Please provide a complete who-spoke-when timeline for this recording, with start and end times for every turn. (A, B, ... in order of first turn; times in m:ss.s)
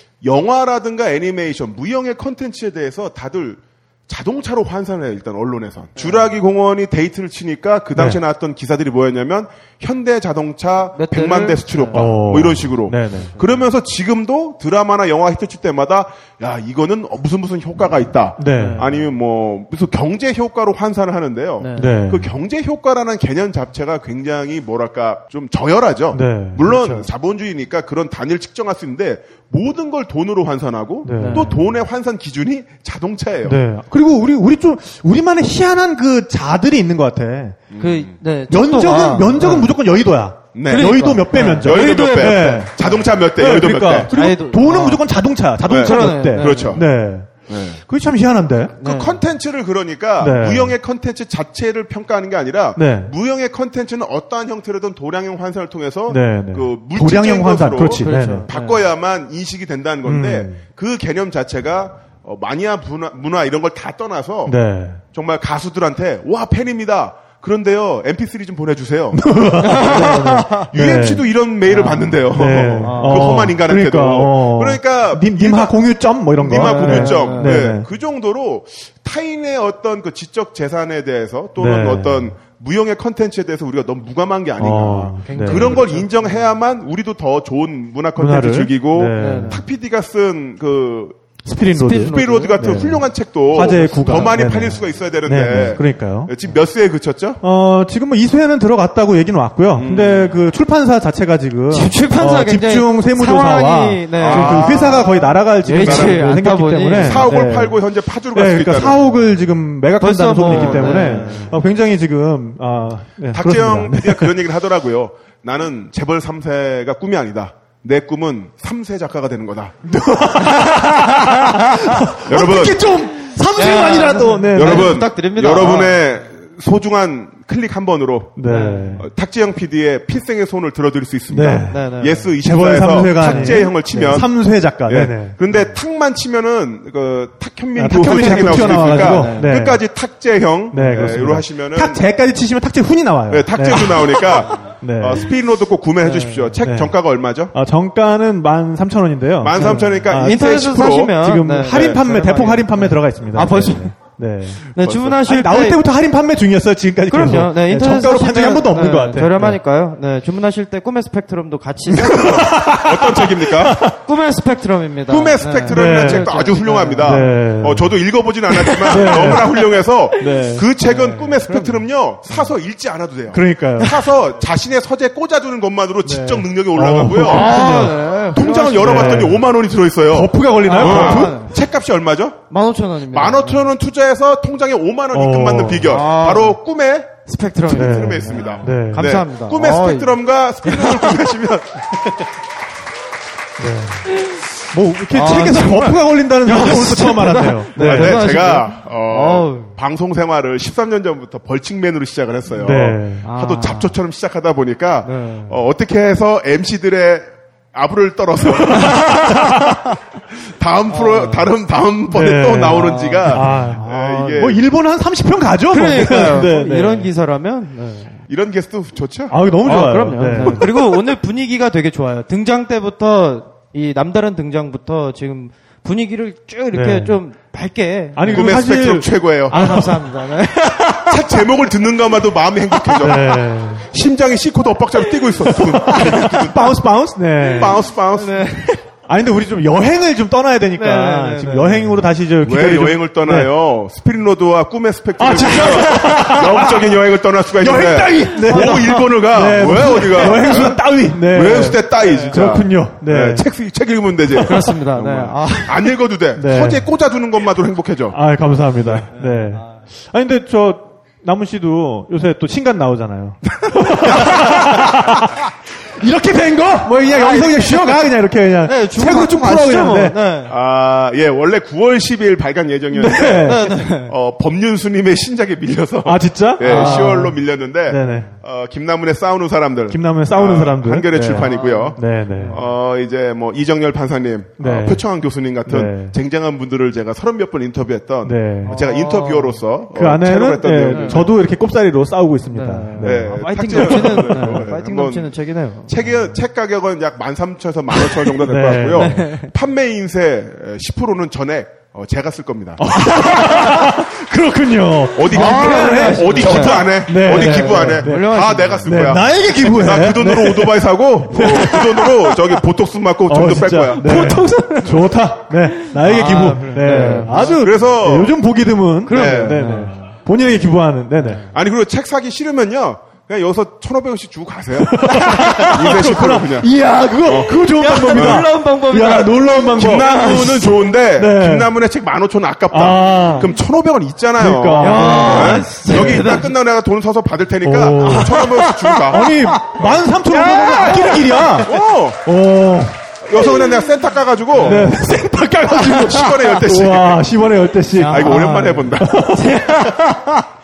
0:00.2-0:33.6 A
0:07.9-0:08.2 B
0:11.0-0:12.1 C
0:11.9-0:13.3 B
0:18.4-0:18.8 B
0:18.5-0:18.9 C
0:21.6-0:21.9 C
0:21.8-0:22.3 B
0:26.1-0:26.7 B
0:26.6-0:27.0 C
0:31.0-0:31.7 B
0:31.1-0:31.5 C
0:33.4-0:37.6 B
0:37.7-0:38.2 A
0:37.8-0:39.7 C
0:38.5-0:47.4 B
0:40.5-0:44.1 A
0:40.7-0:42.9 C
0:44.1-0:45.0 C
0:45.7-0:46.8 A
0:45.7-0:46.8 C
0:47.5-0:47.8 A
0:47.9-0:48.8 B
0:48.8-0:49.2 C
0:48.8-1:04.6 A
0:50.2-0:50.8 B
0:52.8-0:53.1 B
0:56.1-0:58.4 B
0:58.0-0:58.8 C
1:00.0-1:00.6 B
1:04.4-1:05.0 B
1:05.1-1:15.8 A
1:09.1-1:11.2 B
1:09.6-1:10.6 C
1:11.7-1:12.2 C
1:12.3-1:17.9 B
1:12.8-1:13.4 C
1:16.4-1:31.2 A
1:16.5-1:17.6 C
1:21.6-1:22.3 B
1:24.6-1:25.8 B
1:25.2-1:26.4 C
1:28.2-1:29.6 B
1:29.2-1:29.6 C
1:31.4-1:36.3 B
1:31.7-1:32.6 C
1:32.1-1:37.4 A
1:33.8-1:34.4 C
1:37.4-1:47.8 B
1:39.8-1:40.4 A
1:41.7-1:47.3 C
1:44.2-1:45.1 A
1:45.8-1:46.4 A
1:47.0-1:49.0 A
1:48.3-1:54.3 B
1:50.0-1:51.5 C
1:50.5-1:51.3 A
1:53.3-1:59.8 A
1:59.9-2:05.0 B
2:02.2-2:02.8 A
2:03.5-2:06.0 C
2:04.5-2:08.4 A
2:08.4-2:09.0 B
2:08.4-2:09.0 C
2:09.0-2:22.0 A
2:11.3-2:11.8 B
2:11.7-2:12.3 C
2:12.4-2:15.4 B
2:13.2-2:14.2 C
2:17.7-2:19.8 B
2:18.0-2:19.5 C
2:20.7-2:25.3 B
2:23.3-2:27.5 A
2:26.0-2:26.6 C
2:26.6-2:27.0 B
2:27.5-2:39.6 B
2:29.4-2:31.1 A
2:29.6-2:33.9 C
2:31.6-2:32.0 A
2:34.7-2:35.8 C
2:34.8-2:35.2 A
2:37.1-2:42.4 C
2:41.9-2:44.0 B
2:42.1-2:43.9 A
2:44.0-2:47.2 C
2:45.1-3:02.4 A
2:45.7-2:46.3 B
2:47.0-2:48.0 B
2:48.8-2:49.6 B
2:50.2-2:50.7 B
2:50.8-2:51.8 C
2:53.3-2:54.0 B
2:56.0-2:59.5 B
2:57.2-2:59.3 C
3:00.1-3:01.4 B
3:00.7-3:01.6 C
3:02.5-3:03.7 C
3:03.1-3:07.1 A
3:05.1-3:06.0 B
3:05.8-3:06.6 C
3:07.2-3:11.1 C
3:07.6-3:12.1 A
3:07.7-3:09.1 B
3:13.6-3:14.1 B
3:14.7-3:18.3 B
3:15.1-3:19.7 C
3:17.8-3:29.8 A
3:22.5-3:23.3 B
3:23.2-3:23.9 C
3:25.0-3:25.6 C
3:28.7-3:29.8 B
3:28.7-3:29.0 C
3:30.6-3:34.6 A
3:30.9-3:31.5 C
3:32.1-3:37.1 B
3:32.7-3:33.9 C
3:35.7-3:38.2 C
3:38.3-3:39.4 A
3:39.3-3:40.8 B
3:39.6-3:48.5 C
3:40.4-3:40.6 A
3:46.7-3:47.2 B
3:48.1-3:50.1 B
3:48.3-3:49.8 A
3:49.5-3:51.2 C
3:51.0-3:56.8 A
3:52.9-3:53.9 B
3:55.5-3:57.9 B
3:55.8-3:56.2 C
3:57.4-3:58.5 A
3:58.1-3:58.8 C
3:59.1-4:03.5 B
4:00.7-4:02.0 C
4:02.4-4:18.2 A
4:05.2-4:07.0 B
4:07.5-4:13.5 B
4:08.4-4:09.0 C
4:14.3-4:15.8 C
4:16.3-4:16.8 B
4:18.1-4:25.4 B
4:19.1-4:19.6 C
4:23.6-4:24.1 A
4:25.9-4:30.2 B
4:26.9-4:28.0 C
4:28.6-4:30.5 C
4:30.5-4:51.3 A
4:32.9-4:33.7 B
4:33.4-4:34.1 C
4:36.0-4:38.3 B
4:36.6-4:37.3 C
4:38.0-4:38.3 C
4:39.9-4:42.6 B
4:41.3-4:42.6 C
4:44.6-4:45.0 B
4:45.6-4:46.1 B
4:48.2-4:48.8 B
4:48.6-4:49.6 C
4:49.9-4:54.7 B
4:50.9-4:51.2 C
4:52.5-4:56.0 C
4:53.0-4:55.3 A
4:55.9-5:02.9 A
4:58.3-4:59.2 B
4:58.9-4:59.5 C
5:02.8-5:12.6 B
5:05.1-5:14.4 A
5:05.3-5:09.2 C
5:13.3-5:21.4 B
5:14.0-5:15.1 C
5:15.8-5:17.6 C
5:17.0-5:18.4 A
5:19.0-5:20.1 C
5:19.1-5:19.8 A
5:21.2-5:21.5 C
5:21.5-5:26.7 A
5:24.8-5:31.7 B
5:27.2-5:28.4 A
5:27.6-5:30.6 C
5:29.7-5:39.3 A
5:32.7-5:33.5 B
5:34.4-5:36.4 B
5:34.8-5:36.5 C
5:37.6-5:43.0 B
5:39.8-5:42.2 A
5:40.3-5:41.1 C
5:43.2-5:45.0 A
5:44.6-5:44.9 C
5:44.6-5:50.4 B
5:45.7-5:47.3 A
5:47.9-5:50.0 C
5:48.1-5:49.3 A